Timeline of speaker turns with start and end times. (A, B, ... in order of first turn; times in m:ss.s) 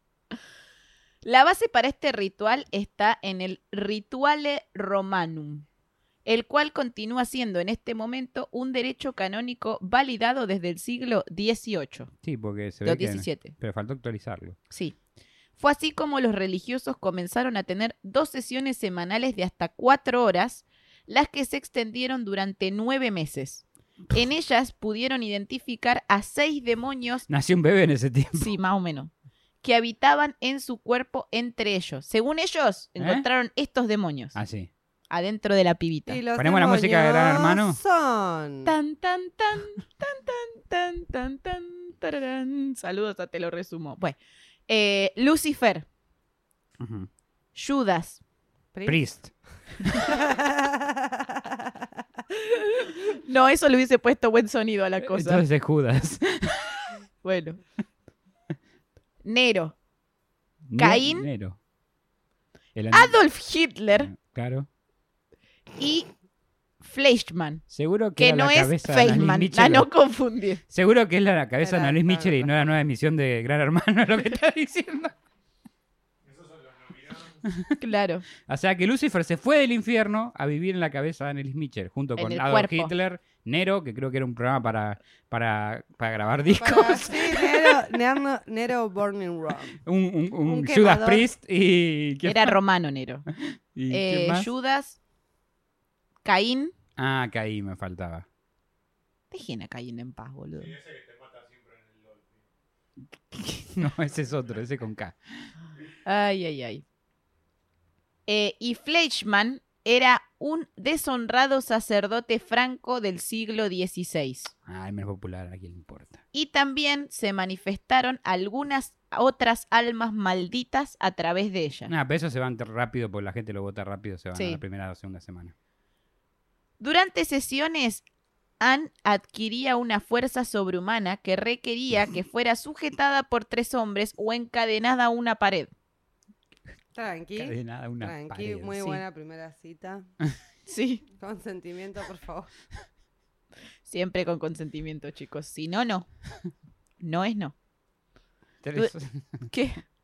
0:01.2-0:05.6 A
0:06.2-0:12.1 A
0:12.2-0:14.6 B
0:12.8-0:13.5 A
0:14.7-0:14.9 A
0:15.6-0:27.2 A
0:27.3-0:28.5 B
0:28.3-0:29.1 A
0:29.6-0:34.4 A
0:33.0-0:33.2 B
0:34.3-0:34.7 B
0:35.1-0:36.2 A
0:36.1-0:38.8 C
0:36.4-0:37.8 B
0:38.6-0:44.2 A
0:44.7-0:45.8 A
0:46.8-0:47.1 B
0:47.5-0:48.2 A
0:48.7-0:49.0 C
0:48.8-0:50.1 B
0:50.0-0:51.8 C
0:52.4-0:55.4 A
0:55.0-0:56.7 B
0:57.2-0:57.6 A
0:59.2-0:59.7 A
1:00.7-1:01.6 B
1:00.8-1:01.3 A
1:02.7-1:03.2 B
1:02.9-1:04.1 A
1:03.9-1:04.7 B
1:05.8-1:06.1 A
1:06.8-1:07.6 A
1:07.7-1:09.9 B
1:08.2-1:10.6 A
1:10.7-1:15.1 B
1:11.6-1:12.7 C
1:17.3-1:17.7 B
1:17.8-1:18.2 A
1:18.4-1:27.7 B
1:22.2-1:22.9 A
1:26.6-1:29.8 C
1:29.8-1:32.5 B
1:30.4-1:31.3 C
1:32.2-1:33.2 A
1:33.3-1:34.5 B
1:33.9-1:35.0 A
1:36.2-1:36.7 A
1:37.0-1:38.2 B
1:39.3-1:40.8 A
1:43.2-1:45.5 B
1:46.0-1:46.8 A
1:48.3-1:54.5 A
1:54.6-1:56.2 B
1:56.3-2:01.9 A
2:01.9-2:05.5 B
2:04.3-2:04.6 A
2:06.8-2:08.0 A
2:08.6-2:15.7 A
2:16.9-2:20.1 C
2:17.4-2:18.8 B
2:20.7-2:21.0 A
2:21.2-2:22.5 C
2:23.8-2:26.1 A
2:27.0-2:27.5 A
2:28.6-2:29.5 B
2:29.5-2:29.8 A